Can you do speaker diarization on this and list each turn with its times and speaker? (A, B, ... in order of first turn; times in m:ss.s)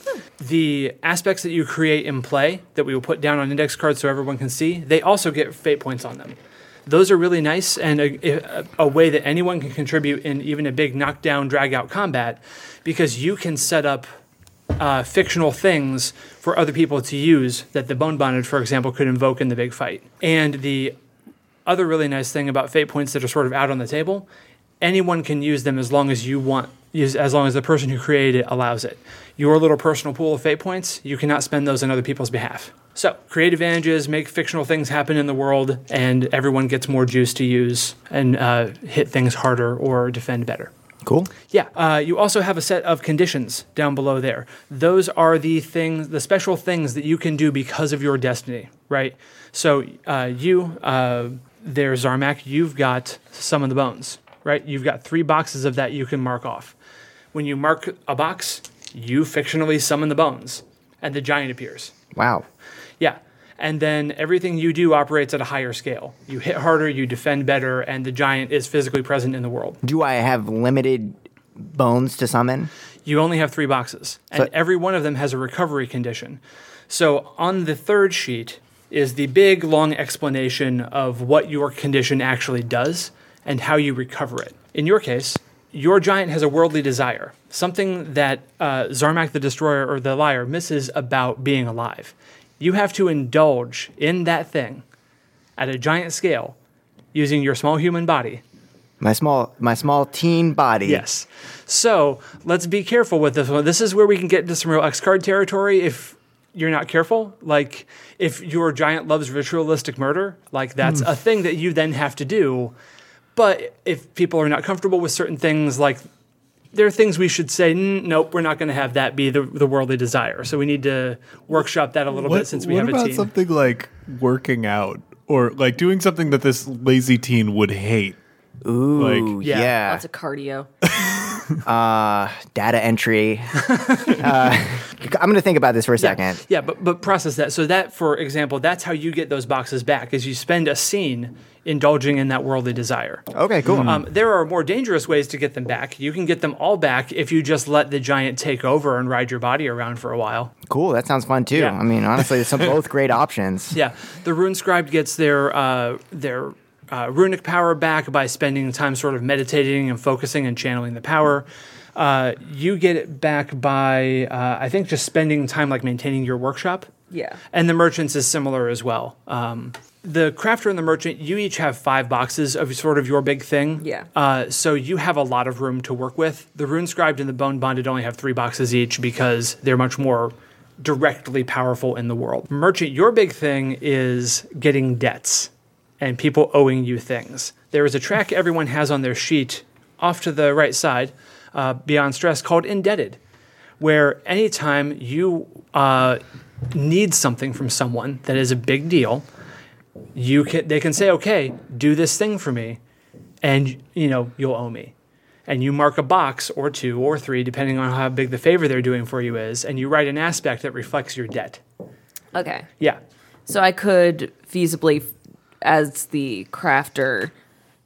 0:00.4-0:14.1 A
0:14.8-0:20.9 A
0:21.6-0:24.3 A
0:24.8-0:40.7 A
0:41.0-0:41.3 B
0:41.5-0:56.7 A
0:57.3-1:01.9 A
1:02.1-1:02.4 B
1:03.0-1:09.8 A
1:09.8-1:12.7 B
1:13.0-1:34.8 A
1:35.6-1:36.6 A
1:37.1-1:38.4 A
1:39.0-1:41.0 B
1:40.8-1:52.7 A
1:53.3-1:56.0 A
1:56.7-2:03.3 A
2:02.1-2:08.2 C
2:08.6-2:10.0 B
2:09.0-2:09.3 C
2:09.4-2:09.7 A
2:09.8-2:10.7 D
2:11.0-2:11.4 C
2:11.6-2:16.4 B
2:16.0-2:30.5 A
2:23.3-2:24.0 B
2:30.7-2:33.8 B
2:31.5-2:31.8 A
2:33.7-2:46.9 A
2:47.1-2:47.4 D
2:47.5-3:13.2 A
2:53.8-2:54.1 D
3:13.8-3:19.2 A
3:20.1-3:22.8 A
3:23.4-3:24.9 A
3:25.5-3:31.6 A
3:32.3-3:32.7 D
3:33.5-3:35.1 D
3:35.6-3:37.3 D